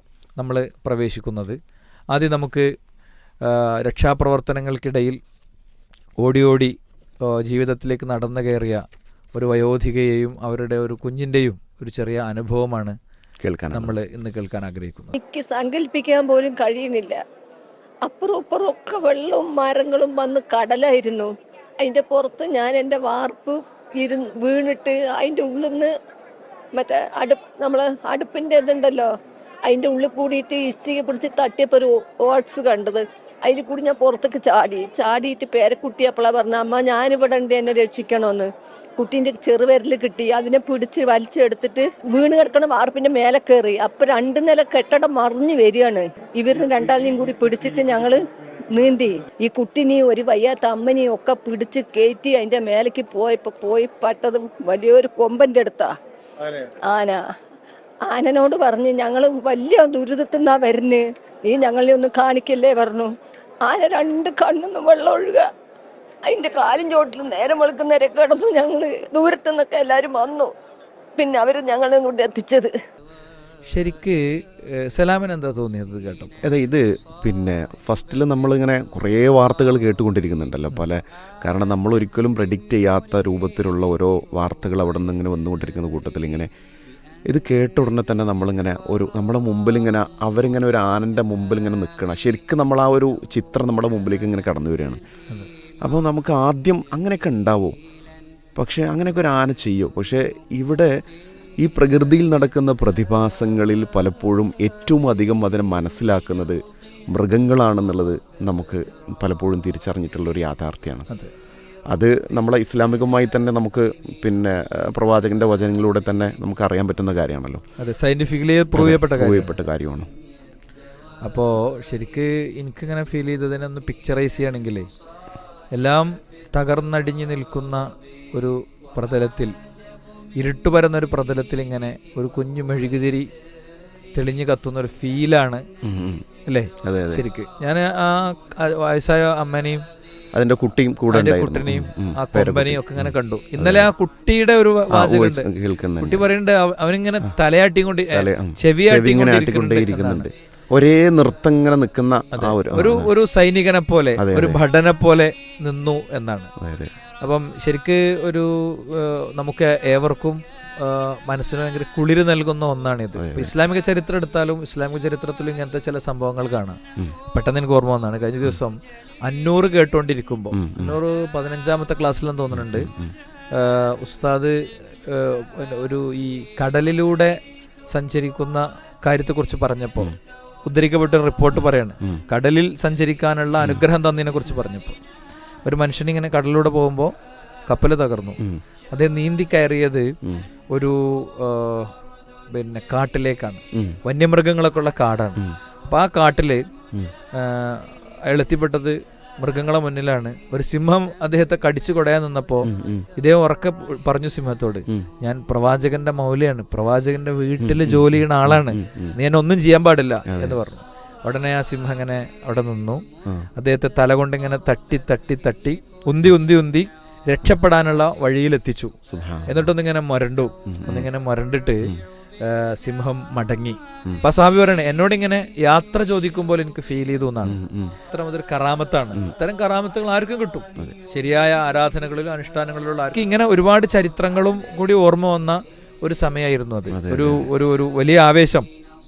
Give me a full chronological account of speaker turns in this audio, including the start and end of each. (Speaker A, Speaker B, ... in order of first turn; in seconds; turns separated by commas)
Speaker A: 0.4-1.6, Speaker A: 2.1-2.7, Speaker A: 3.4-5.2, Speaker A: 6.2-12.9, Speaker B: 13.4-13.9, Speaker A: 13.7-15.1, Speaker C: 15.1-17.2, Speaker C: 18.1-25.9, Speaker C: 26.8-29.1, Speaker C: 29.7-55.9, Speaker C: 56.6-57.2, Speaker C: 58.0-63.1, Speaker C: 63.6-65.5, Speaker C: 66.2-70.5, Speaker C: 71.2-72.7, Speaker A: 73.7-76.3, Speaker B: 76.4-86.5, Speaker B: 87.3-95.0, Speaker B: 95.8-97.8, Speaker B: 98.5-100.9, Speaker B: 101.6-106.6, Speaker B: 107.1-111.1, Speaker A: 111.1-111.3, Speaker B: 111.9-117.6, Speaker A: 117.8-119.5, Speaker B: 118.7-120.1, Speaker A: 121.2-124.9, Speaker A: 125.7-129.5, Speaker A: 130.4-133.3, Speaker A: 134.1-135.6, Speaker B: 135.8-136.2, Speaker A: 136.4-139.8, Speaker B: 136.8-137.3, Speaker B: 140.3-143.9, Speaker A: 141.1-145.5, Speaker B: 144.9-146.3, Speaker A: 146.0-150.3, Speaker B: 148.1-153.1, Speaker A: 152.3-156.5, Speaker B: 154.2-154.6, Speaker B: 156.6-156.9, Speaker A: 157.2-166.8, Speaker B: 163.2-163.5, Speaker A: 167.3-172.9, Speaker B: 170.5-171.0, Speaker B: 172.5-173.1, Speaker A: 173.5-177.4, Speaker A: 177.9-185.0, Speaker B: 181.5-182.2, Speaker A: 185.6-187.1, Speaker A: 187.7-188.4, Speaker A: 188.9-190.1, Speaker A: 190.7-191.9, Speaker A: 192.5-196.6, Speaker B: 193.7-194.0, Speaker A: 197.3-213.0, Speaker B: 202.7-203.1, Speaker B: 207.6-209.2, Speaker B: 210.3-210.6, Speaker A: 213.6-218.9, Speaker B: 219.1-219.7, Speaker A: 219.4-238.7, Speaker B: 220.7-221.1, Speaker B: 227.4-227.9, Speaker B: 236.9-237.5